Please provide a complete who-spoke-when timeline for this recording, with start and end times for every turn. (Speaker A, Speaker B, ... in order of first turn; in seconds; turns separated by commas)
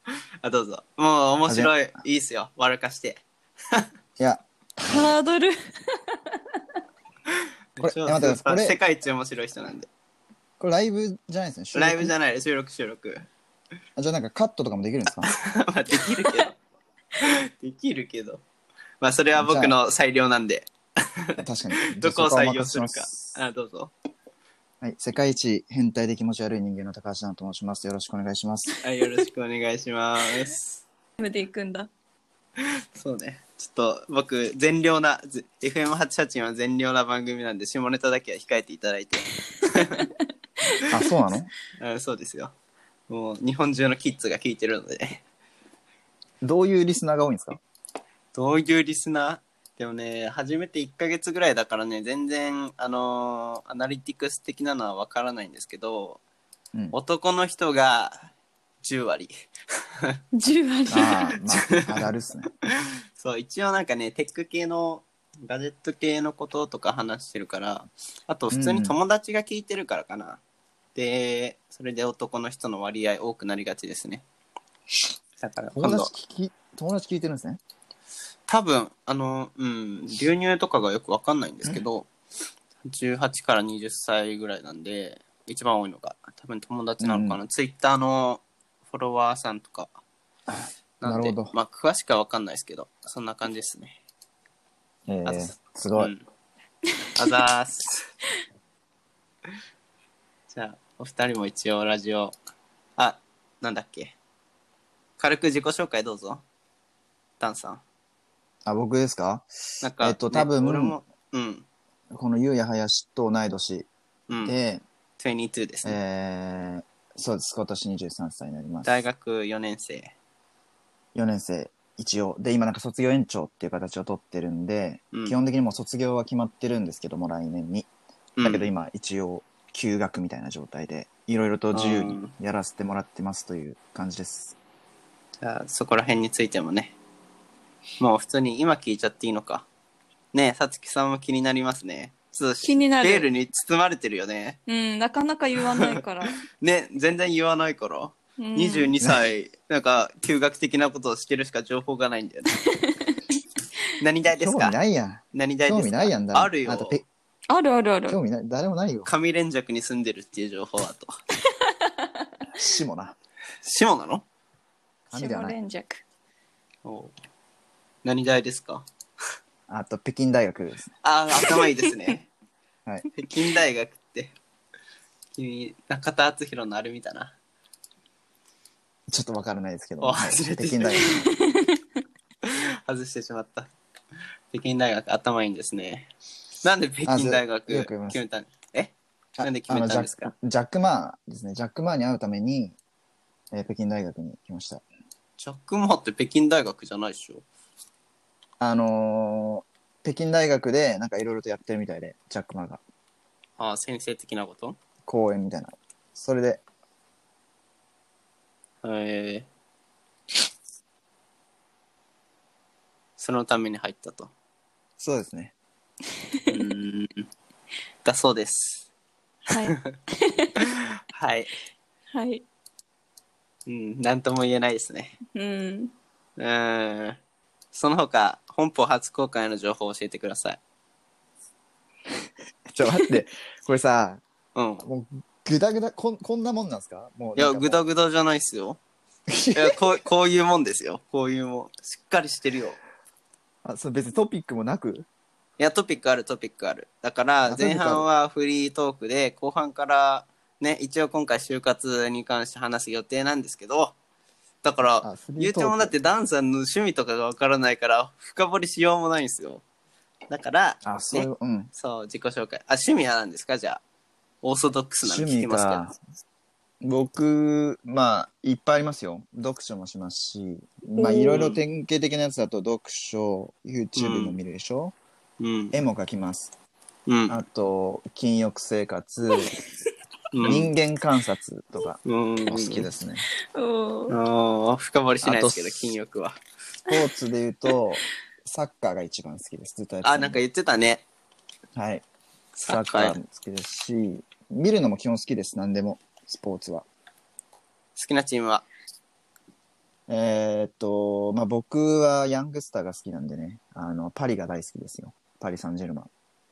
Speaker A: 0.4-3.9, Speaker B: 1.5-1.7, Speaker B: 4.2-5.1, Speaker C: 4.9-6.6, Speaker A: 7.8-9.9, Speaker B: 7.8-8.8, Speaker B: 10.6-12.1, Speaker A: 11.8-13.2, Speaker B: 14.0-15.3, Speaker A: 15.2-16.6, Speaker A: 17.2-18.4, Speaker A: 19.0-21.4, Speaker B: 19.4-19.8, Speaker B: 21.4-23.4, Speaker A: 21.9-23.9, Speaker B: 24.8-28.7, Speaker A: 28.8-30.8, Speaker C: 31.2-31.9, Speaker A: 32.6-40.1, Speaker C: 39.8-40.2, Speaker B: 40.9-41.5, Speaker A: 41.8-42.5, Speaker A: 43.1-45.2, Speaker B: 46.4-47.6, Speaker A: 48.3-56.2, Speaker A: 56.9-58.3, Speaker A: 58.8-59.3, Speaker C: 60.3-61.4, Speaker B: 60.9-62.5, Speaker A: 61.5-62.1, Speaker A: 62.6-70.4, Speaker B: 68.5-69.0, Speaker A: 71.0-74.2, Speaker A: 75.4-76.1, Speaker B: 75.8-77.6, Speaker A: 78.5-82.1, Speaker A: 82.8-89.9, Speaker B: 87.0-87.4, Speaker B: 90.5-91.5, Speaker A: 91.0-94.0, Speaker B: 95.1-96.1, Speaker A: 95.3-96.2, Speaker A: 97.2-98.1, Speaker A: 100.5-102.3, Speaker A: 103.0-104.2, Speaker A: 105.2-106.4, Speaker A: 107.4-107.8, Speaker B: 108.7-109.5, Speaker A: 109.8-111.7, Speaker B: 110.0-111.0, Speaker B: 112.1-113.9, Speaker A: 114.3-114.6, Speaker B: 114.4-114.8, Speaker A: 115.2-116.0, Speaker B: 115.8-119.0, Speaker A: 118.8-120.1, Speaker B: 121.2-127.9, Speaker A: 128.4-128.7, Speaker B: 128.4-134.6, Speaker A: 131.7-132.3, Speaker A: 135.4-136.9, Speaker A: 138.0-139.7, Speaker A: 140.3-144.6, Speaker C: 142.6-143.3, Speaker C: 144.7-146.4, Speaker A: 145.6-152.5, Speaker C: 148.4-148.9, Speaker C: 152.7-153.2, Speaker A: 154.0-154.8, Speaker B: 154.3-157.1, Speaker A: 155.3-157.0, Speaker C: 157.5-158.2, Speaker B: 158.1-159.1, Speaker A: 159.1-161.1, Speaker C: 161.6-162.1, Speaker B: 162.6-163.2, Speaker A: 163.6-164.2, Speaker C: 165.1-166.0, Speaker B: 165.1-165.6, Speaker A: 166.8-167.1, Speaker A: 168.0-168.8, Speaker B: 169.7-170.9, Speaker A: 171.0-172.3, Speaker A: 173.1-174.3, Speaker A: 175.4-177.3, Speaker B: 179.1-181.2, Speaker A: 180.0-181.1, Speaker C: 181.0-181.8, Speaker A: 182.4-183.7, Speaker A: 184.5-186.1, Speaker A: 186.6-190.3, Speaker B: 187.1-188.2, Speaker B: 189.4-192.8, Speaker B: 193.5-194.8, Speaker A: 195.4-197.4, Speaker B: 198.6-202.8, Speaker A: 203.6-204.8, Speaker B: 205.1-206.6, Speaker A: 208.8-209.5, Speaker A: 213.2-214.3, Speaker B: 215.0-215.5, Speaker A: 216.5-217.3, Speaker A: 218.1-218.9, Speaker C: 219.5-220.5, Speaker A: 219.7-219.9, Speaker A: 220.6-221.6, Speaker C: 222.1-222.4, Speaker A: 223.7-225.2, Speaker C: 225.3-225.9, Speaker A: 226.4-227.2, Speaker A: 227.7-230.6, Speaker B: 232.7-234.2, Speaker A: 234.6-234.8, Speaker B: 234.8-237.8, Speaker A: 237.4-238.8, Speaker B: 239.3-240.0, Speaker A: 239.6-242.8, Speaker B: 243.6-245.1, Speaker A: 245.6-253.9, Speaker B: 247.5-248.1, Speaker A: 254.6-259.6, Speaker B: 255.0-255.9, Speaker A: 260.3-263.8, Speaker B: 260.9-261.7, Speaker A: 264.4-265.9, Speaker B: 265.0-266.0, Speaker B: 266.8-274.9, Speaker C: 271.0-271.4, Speaker A: 271.3-271.6, Speaker A: 274.0-274.4, Speaker A: 275.4-275.8, Speaker B: 275.7-276.5, Speaker A: 277.1-277.4, Speaker B: 277.3-279.5, Speaker A: 280.3-280.7, Speaker B: 280.4-283.3, Speaker A: 282.1-282.9, Speaker C: 283.5-284.1, Speaker A: 284.1-286.4, Speaker B: 285.2-286.0, Speaker B: 286.9-290.4, Speaker A: 290.0-291.0, Speaker B: 291.8-292.0, Speaker A: 292.6-293.2, Speaker B: 292.7-296.9, Speaker A: 298.0-298.7, Speaker B: 300.1-306.1